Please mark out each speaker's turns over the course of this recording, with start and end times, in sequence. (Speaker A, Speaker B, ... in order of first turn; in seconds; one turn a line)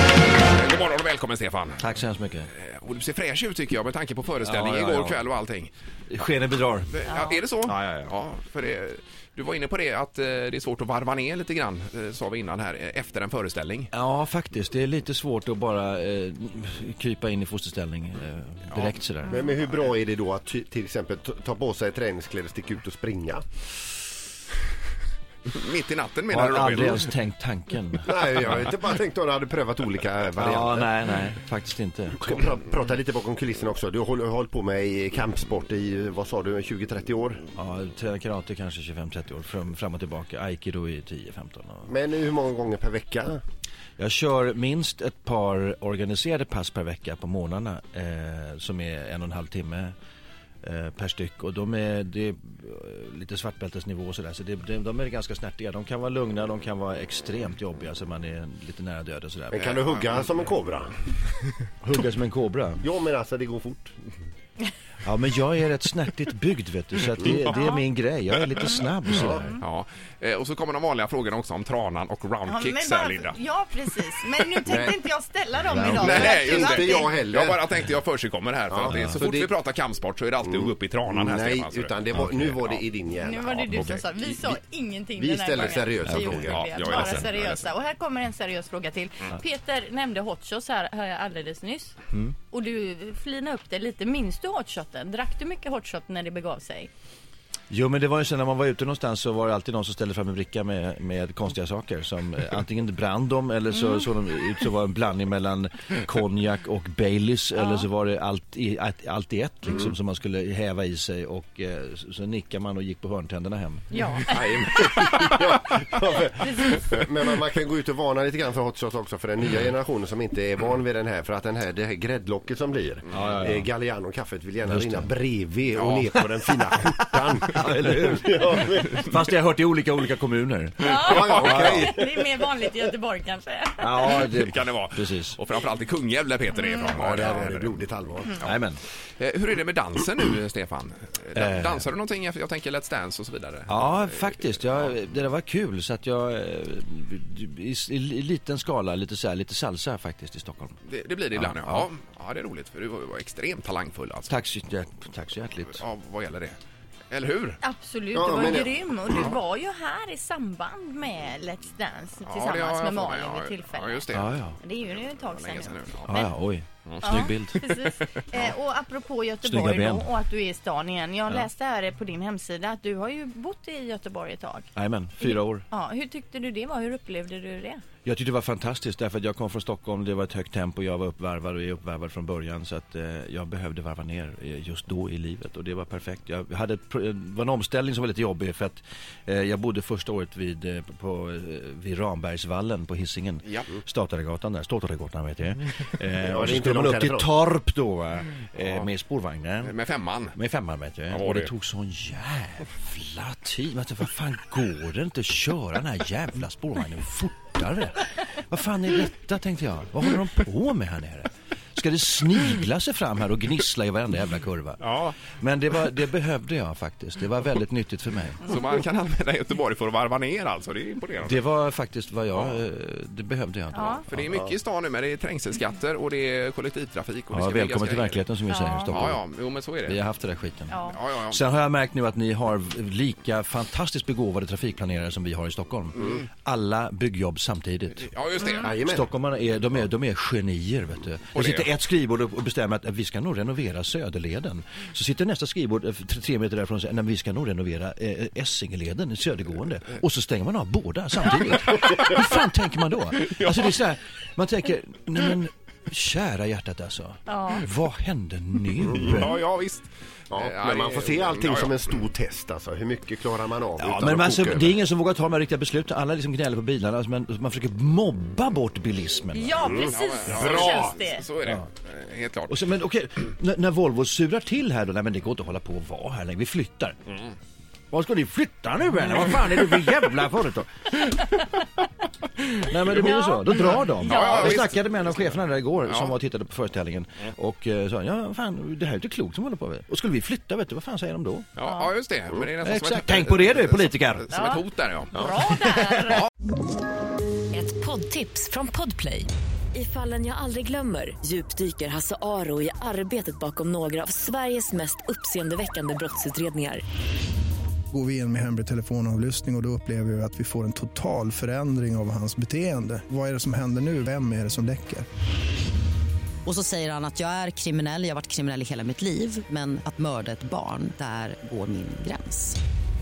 Speaker A: 0.4-1.8
Speaker B: 1.8-2.5
Speaker A: 2.5-5.7
Speaker B: 4.4-5.3
Speaker B: 6.1-6.9
Speaker A: 6.9-13.9
Speaker C: 7.1-7.4
Speaker B: 7.7-8.1
Speaker B: 13.9-19.4
Speaker A: 18.7-19.0
Speaker D: 19.3-23.4
Speaker A: 25.5-27.0
Speaker B: 26.3-28.5
Speaker D: 28.0-30.9
Speaker B: 30.4-32.4
Speaker D: 32.2-37.4
Speaker B: 37.5-41.9
Speaker D: 41.9-43.4
Speaker B: 44.0-49.9
Speaker B: 50.6-59.7
Speaker D: 59.5-60.9
Speaker A: 59.6-60.3
Speaker B: 61.8-62.8
Speaker D: 62.8-64.2
Speaker B: 65.0-69.6
Speaker C: 67.5-67.8
Speaker C: 68.7-69.6
Speaker A: 69.6-73.4
Speaker C: 72.5-77.2
Speaker D: 74.6-75.0
Speaker B: 75.7-76.3
Speaker D: 75.9-77.7
Speaker A: 75.9-82.0
Speaker D: 78.7-79.5
Speaker D: 80.4-84.6
Speaker C: 83.2-92.0
Speaker D: 85.2-87.2
Speaker B: 86.1-86.5
Speaker A: 86.4-87.7
Speaker C: 92.5-96.9
Speaker B: 97.7-114.1
Speaker C: 103.7-104.1
Speaker C: 107.5-107.8
Speaker C: 113.9-115.3
Speaker D: 114.3-129.1
Speaker C: 116.4-116.8
Speaker B: 123.1-123.7
Speaker B: 124.6-125.1
Speaker A: 125.8-126.1
Speaker B: 127.2-132.0
Speaker C: 130.8-134.3
Speaker D: 130.9-132.1
Speaker A: 131.1-131.5
Speaker B: 133.8-135.4
Speaker A: 134.0-137.8
Speaker C: 136.7-137.4
Speaker D: 136.8-138.3
Speaker B: 138.4-138.8
Speaker A: 139.2-144.9
Speaker B: 141.3-141.9
Speaker B: 143.7-150.8
Speaker A: 150.8-154.3
Speaker B: 151.3-151.9
Speaker B: 154.3-155.8
Speaker A: 155.7-156.6
Speaker A: 157.1-157.6
Speaker C: 157.6-166.3
Speaker D: 158.1-158.8
Speaker A: 162.2-164.3
Speaker B: 164.1-164.6
Speaker A: 165.0-166.2
Speaker B: 166.1-167.8
Speaker A: 166.8-167.1
Speaker C: 167.0-174.7
Speaker A: 167.9-168.2
Speaker B: 169.4-170.1
Speaker B: 174.8-175.7
Speaker C: 175.2-177.8
Speaker B: 178.0-199.8
Speaker D: 196.2-197.3
Speaker A: 198.6-198.9
Speaker A: 199.6-200.3
Speaker B: 200.3-218.4
Speaker A: 201.1-201.5
Speaker A: 214.8-215.2
Speaker A: 218.4-221.4
Speaker B: 221.2-224.3
Speaker A: 222.3-222.6
Speaker C: 223.7-224.1
Speaker A: 224.1-228.2
Speaker B: 227.3-229.2
Speaker C: 228.5-228.9
Speaker A: 228.9-230.0
Speaker B: 229.8-238.1
Speaker C: 230.7-231.0
Speaker A: 230.9-231.4
Speaker A: 238.0-238.7
Speaker D: 238.5-239.1
Speaker B: 238.8-259.4
Speaker A: 241.3-241.7
Speaker C: 257.3-257.6
Speaker A: 259.0-261.9
Speaker D: 260.3-264.8
Speaker B: 263.8-269.8
Speaker C: 269.3-271.3
Speaker D: 269.6-270.9
Speaker A: 269.7-272.6
Speaker B: 271.4-271.7
Speaker B: 272.5-277.0
Speaker B: 277.9-281.6
Speaker B: 282.4-291.5
Speaker C: 283.0-284.4
Speaker A: 284.0-285.3
Speaker A: 285.8-286.1
Speaker A: 291.6-295.3
Speaker C: 291.6-291.9
Speaker B: 292.6-294.3
Speaker C: 294.3-296.2
Speaker B: 295.3-296.2
Speaker E: 297.5-306.8
Speaker F: 307.9-315.1
Speaker G: 316.4-322.5